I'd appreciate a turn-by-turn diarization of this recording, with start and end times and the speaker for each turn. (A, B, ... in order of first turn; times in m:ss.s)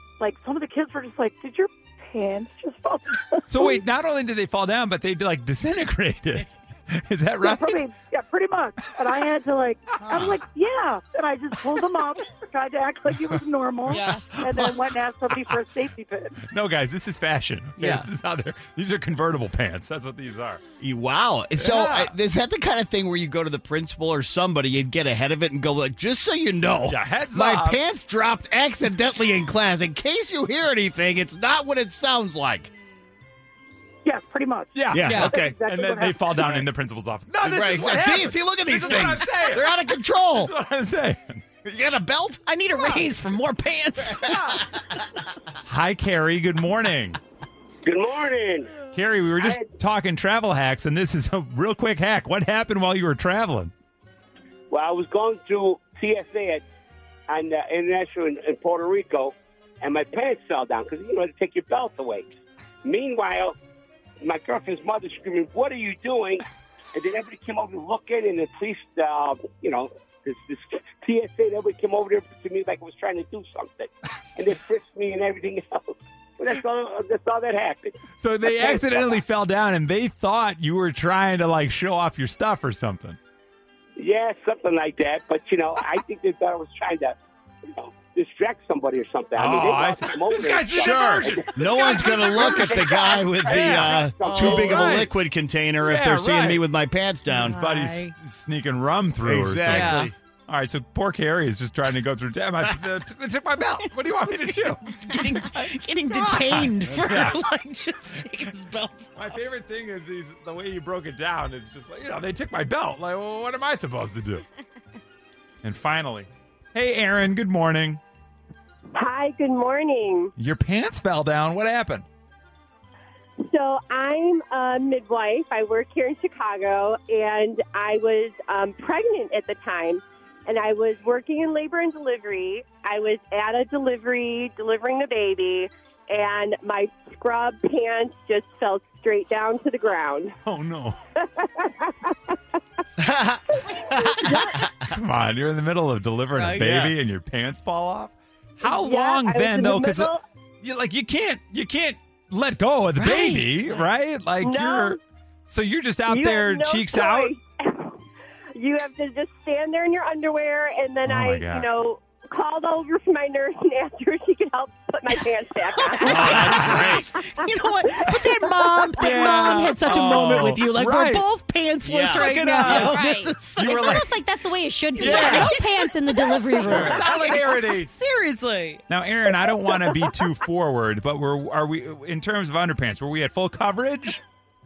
0:00.2-0:03.8 A
0:03.5-0:07.7 B
0:07.4-0:16.4 A
0:10.1-0:10.3 B
0:13.9-0:14.3 C
0:13.9-0:14.7 D
0:16.5-0:20.6 B
0:17.8-0:18.1 C
0:20.8-0:32.7 D
0:21.6-0:22.1 B
0:26.9-0:27.8 B
0:34.0-0:36.6 A
0:34.7-0:39.8 B
0:34.9-0:35.6 D
0:35.0-0:35.3 C
0:37.4-0:40.5 D
0:40.3-0:41.4 B
0:41.6-0:43.0 D
0:42.4-0:44.6 C
0:44.2-0:44.6 D
0:44.3-0:44.6 B
0:45.6-0:47.2 B
0:47.8-0:48.7 E
0:48.9-0:53.7 B
0:54.7-0:56.6 E
0:57.3-1:02.3 E
1:02.8-1:03.6 E
1:04.2-1:06.4 E
1:06.9-1:18.0 E
1:18.2-1:23.2 B
1:24.0-1:34.9 E
1:29.4-1:35.1 B
1:31.5-1:37.6 D
1:34.2-1:34.6 C
1:35.8-1:36.6 B
1:37.3-1:38.1 C
1:37.4-1:45.6 B
1:39.2-1:40.1 D
1:39.7-1:40.1 C
1:44.2-1:49.4 C
1:46.2-1:47.4 B
1:46.9-1:47.2 D
1:49.2-1:54.4 B
1:55.6-1:58.0 B
1:58.9-2:00.3 F
2:00.4-2:02.0 B
2:03.4-2:20.4 F
2:20.4-2:21.0 B
2:21.2-2:22.3 F
2:23.0-2:24.7 D
2:24.2-2:24.6 F
2:24.8-2:37.3 B
2:26.3-2:26.8 C
2:26.6-2:26.9 D
2:28.6-2:30.2 F
2:33.0-2:33.9 C
2:34.4-2:35.0 F
2:36.1-2:38.0 F
2:38.5-2:46.5 F
2:41.0-2:41.7 B
2:45.1-2:54.1 C
2:46.0-2:47.1 D
2:46.2-2:47.0 B
2:49.0-2:51.3 B
2:51.8-2:52.8 D
2:52.1-2:54.1 B
2:52.8-2:57.2 G
2:54.9-2:58.8 C
2:55.0-2:55.5 B
2:56.6-2:57.9 B
2:58.9-3:04.2 B